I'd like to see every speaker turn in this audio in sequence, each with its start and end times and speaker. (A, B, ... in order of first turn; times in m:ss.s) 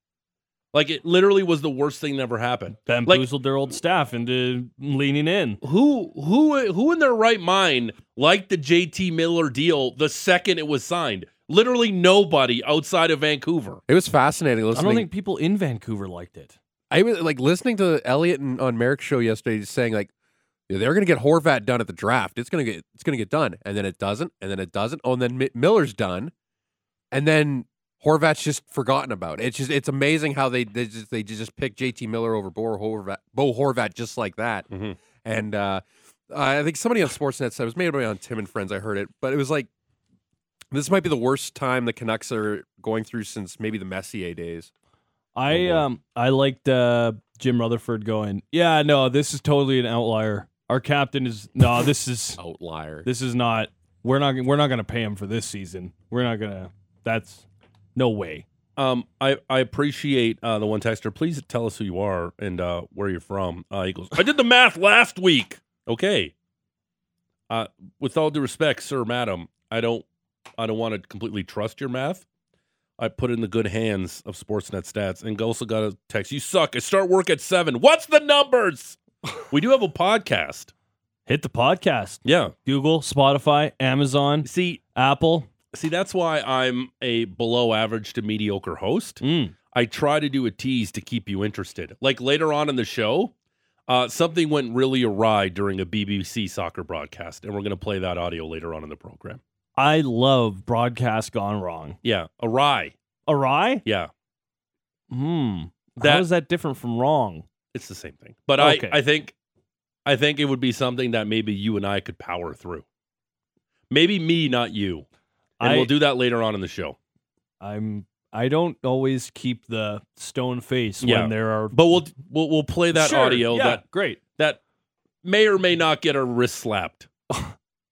0:00.7-0:03.3 A
0:02.9-0:05.6 B
0:05.6-0:13.8 A
0:13.9-0:15.1 C
0:14.7-0:16.6 B
0:16.9-0:20.1 C
0:20.7-0:26.3 C
0:27.1-0:34.7 C
0:34.7-0:35.0 A
0:35.2-0:39.7 C
0:40.7-0:44.7 C
0:45.4-0:52.4 B
0:45.5-0:45.8 C
0:52.4-0:53.1 C
0:53.0-0:57.4 B
0:58.0-0:58.4 B
0:58.8-1:06.3 A
1:07.5-1:10.0 A
1:10.6-1:12.2 A
1:13.0-1:19.0 A
1:19.5-1:20.7 A
1:21.3-1:25.5 B
1:22.2-1:22.6 A
1:24.4-1:24.8 A
1:25.7-1:33.3 A
1:29.2-1:29.5 B
1:33.9-1:39.4 A
1:39.8-1:42.0 B
1:42.0-1:43.0 A
1:43.3-1:43.8 B
1:43.8-1:44.1 A
1:45.1-1:47.5 B
1:46.0-1:46.3 A
1:47.7-1:49.3 A
1:48.6-1:49.0 B
1:50.1-1:52.8 A
1:53.9-1:55.1 A
1:55.6-1:55.9 B
1:55.6-1:57.0 A
1:57.6-2:01.8 B
2:01.0-2:03.8 A
2:02.9-2:04.2 B
2:05.2-2:07.1 A